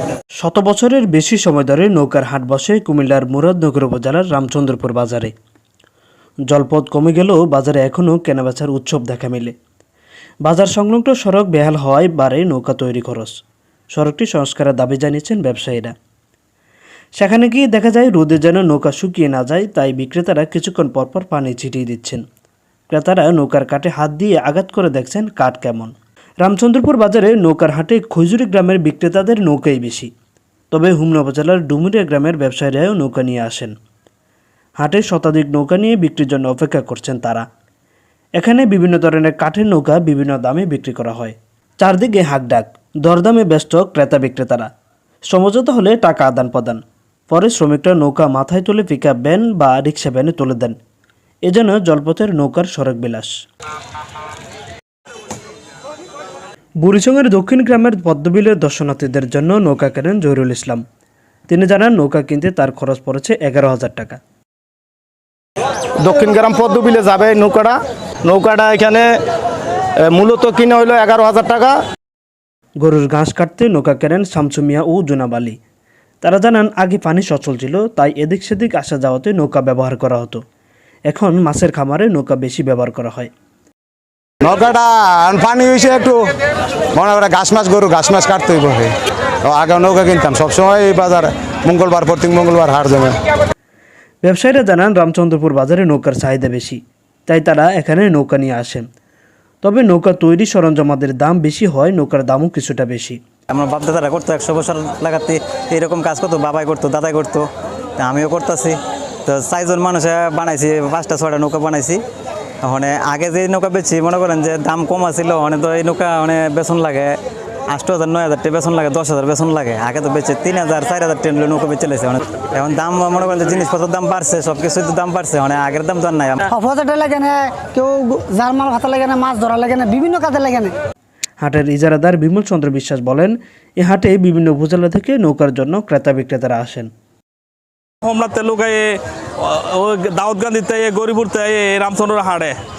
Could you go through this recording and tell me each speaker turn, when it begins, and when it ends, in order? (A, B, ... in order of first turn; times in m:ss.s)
0:00.4-0:05.3 A
0:06.5-0:09.5 A
0:10.4-0:13.4 A
0:13.9-0:15.9 A
0:17.2-0:22.2 A
0:22.9-0:30.1 A
0:30.7-0:33.7 A
0:34.8-0:37.4 A
0:38.4-0:44.7 A
0:45.3-0:50.8 A
0:51.4-0:53.3 A
0:56.8-1:00.8 A
1:01.5-1:04.2 A
1:06.0-1:07.8 B
1:08.3-1:09.1 B
1:10.0-1:11.8 B
1:12.8-1:15.6 A
1:16.2-1:20.4 A
1:21.1-1:23.3 A
1:24.4-1:26.3 C
1:26.9-1:33.2 C
1:34.2-1:38.8 A
1:39.6-1:43.2 A
1:43.5-1:52.0 D
1:52.6-1:57.2 D
1:57.7-2:06.5 D
2:06.5-2:10.7 E
2:11.4-2:16.9 A
2:18.0-2:22.6 F